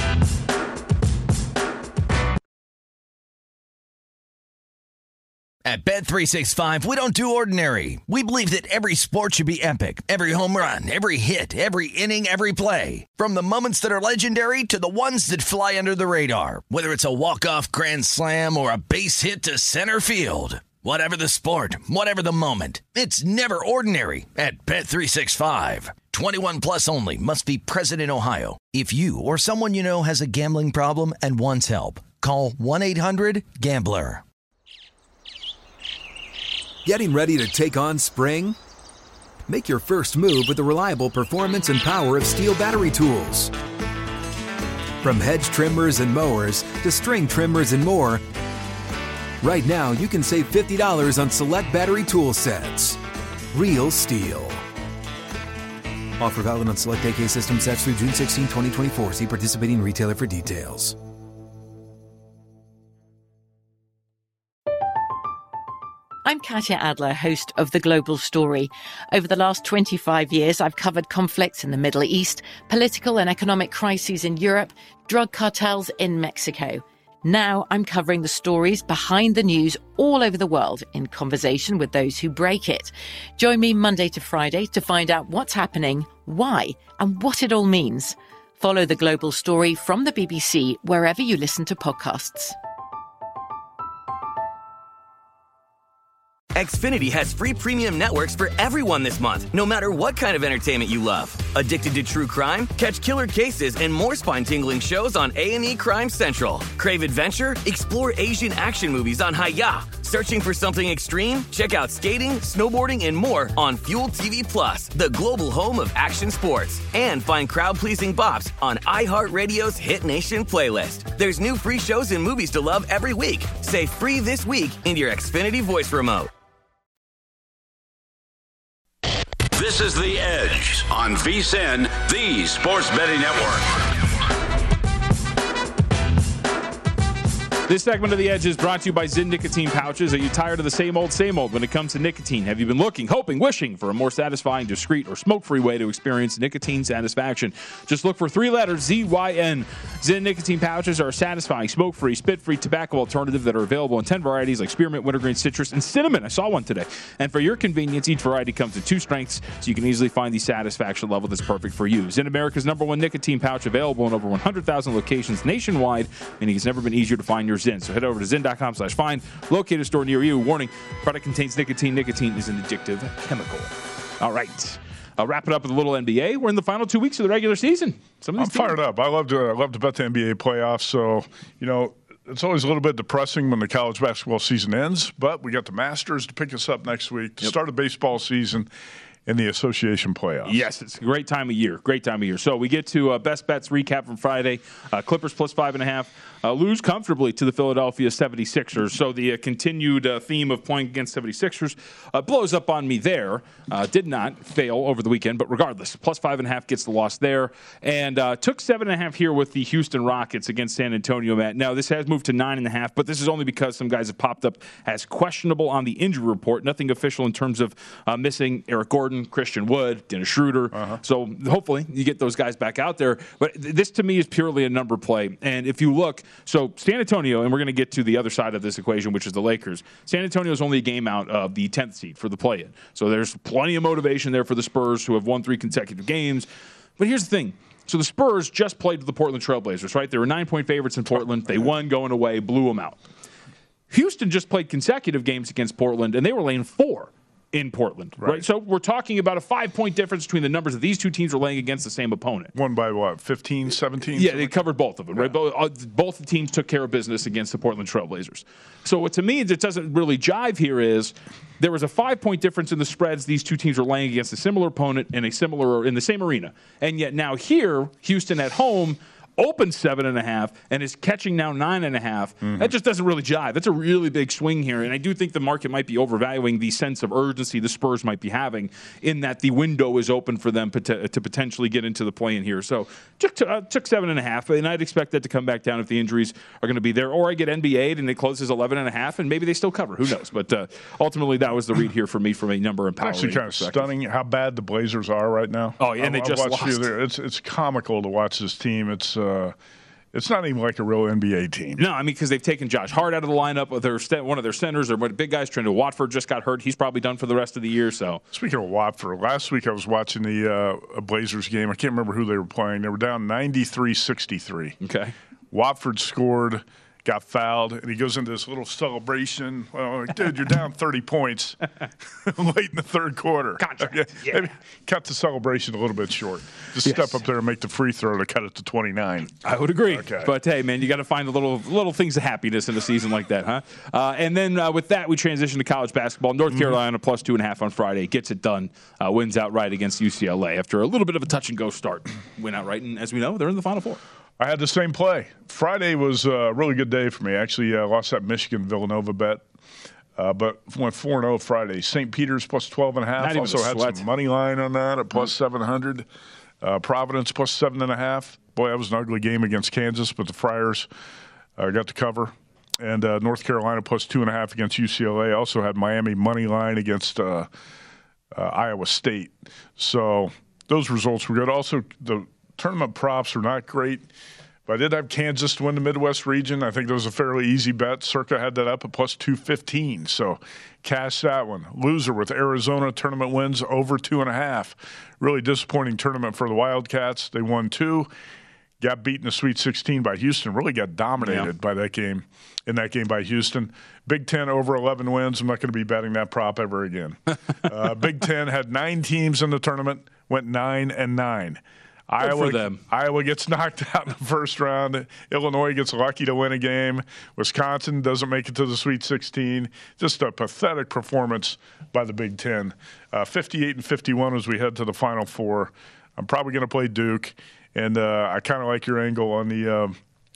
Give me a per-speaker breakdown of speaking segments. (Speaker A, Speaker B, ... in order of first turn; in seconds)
Speaker A: 5.6-34.2
Speaker B: 36.8-38.5, 39.5-43.5, 45.0-48.2, 49.4-53.0, 53.5-54.6, 56.2-61.0
Speaker C: 66.2-92.5
Speaker D: 96.5-126.3
Speaker E: 129.5-134.1
Speaker F: 137.7-178.8, 190.4-236.5, 237.0-243.0, 243.9-252.5, 254.1-293.9, 295.8-296.9, 301.8-308.2, 314.8-315.1, 323.6-324.5, 326.8-327.2, 329.4-344.0, 353.2-354.0, 391.2-391.5, 402.2-402.8
Speaker G: 178.4-188.7, 189.2-190.6, 220.7-221.0, 241.2-241.6, 248.2-248.4, 252.5-255.3, 272.4-272.7, 293.0-299.5, 300.1-301.8, 308.3-314.8, 315.5-321.6, 322.2-329.4, 329.9-330.3, 344.4-349.4, 350.1-356.1, 356.6-360.9, 361.6-367.5, 368.3-374.1, 374.7-388.1, 388.8-419.9